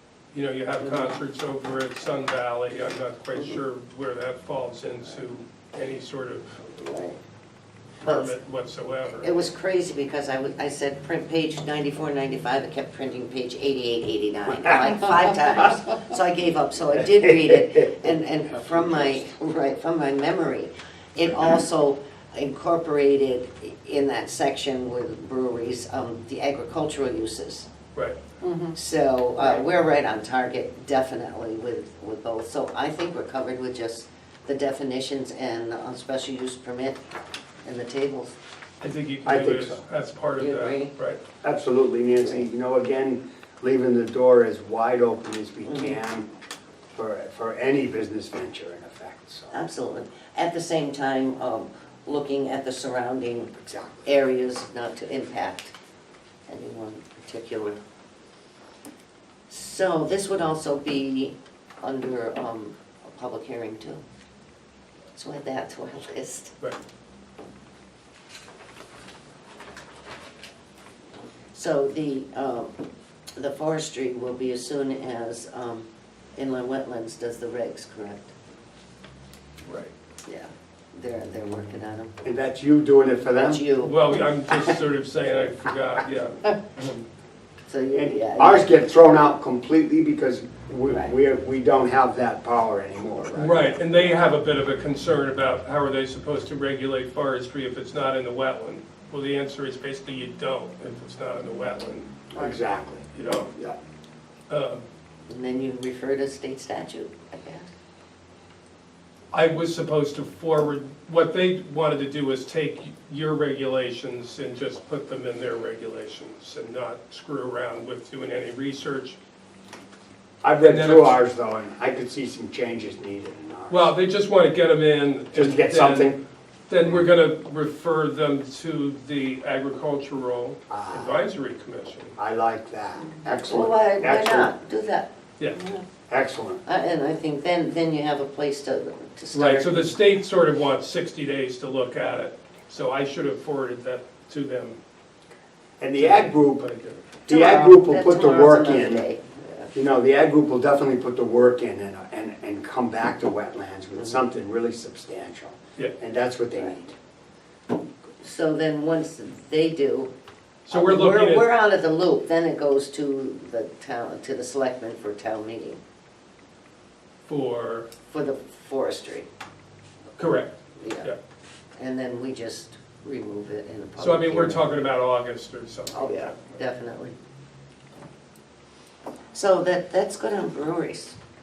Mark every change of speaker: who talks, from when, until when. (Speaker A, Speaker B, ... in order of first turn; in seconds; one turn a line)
Speaker A: 0.3-6.6
Speaker B: 0.8-1.2
Speaker B: 6.6-7.2
Speaker A: 8.0-9.4
Speaker B: 8.0-8.4
Speaker B: 9.2-27.7
Speaker C: 14.7-15.2
Speaker C: 17.0-19.2
Speaker B: 28.4-37.0
Speaker B: 37.6-38.4
Speaker A: 38.8-41.2
Speaker C: 39.2-39.8
Speaker B: 40.4-40.9
Speaker C: 41.4-46.3
Speaker B: 45.7-46.0
Speaker C: 47.0-49.5
Speaker B: 49.5-55.7
Speaker C: 53.6-54.0
Speaker B: 56.5-57.8
Speaker B: 59.5-64.0
Speaker B: 65.1-66.5
Speaker B: 71.5-72.7
Speaker B: 73.3-78.3
Speaker A: 79.6-79.9
Speaker B: 80.2-82.1
Speaker C: 82.2-83.6
Speaker B: 83.4-84.0
Speaker A: 83.8-87.0
Speaker B: 87.7-88.8
Speaker C: 87.9-94.3
Speaker B: 90.9-91.1
Speaker A: 93.3-102.5
Speaker C: 102.3-103.8
Speaker A: 103.1-103.5
Speaker A: 104.5-104.8
Speaker B: 105.3-107.7
Speaker A: 109.3-119.2
Speaker C: 120.4-123.9
Speaker A: 120.6-121.2
Speaker A: 123.7-126.2
Speaker C: 125.3-126.2
Speaker A: 126.7-132.2
Speaker C: 130.7-131.2
Speaker C: 132.2-134.5
Speaker B: 133.2-135.9
Speaker C: 136.1-136.6
Speaker B: 136.7-139.9
Speaker A: 139.3-144.8
Speaker C: 145.8-146.7
Speaker A: 146.0-147.1
Speaker C: 147.3-149.1
Speaker B: 147.3-149.7
Speaker C: 149.7-156.9
Speaker B: 158.2-160.1
Speaker A: 160.7-161.5
Speaker B: 160.7-165.8
Speaker A: 167.3-167.9
Speaker B: 168.0-169.3
Speaker A: 170.2-171.2
Speaker B: 170.8-171.1
Speaker B: 171.8-174.8
Speaker A: 174.0-176.4
Speaker B: 175.9-177.2
Speaker B: 179.3-181.2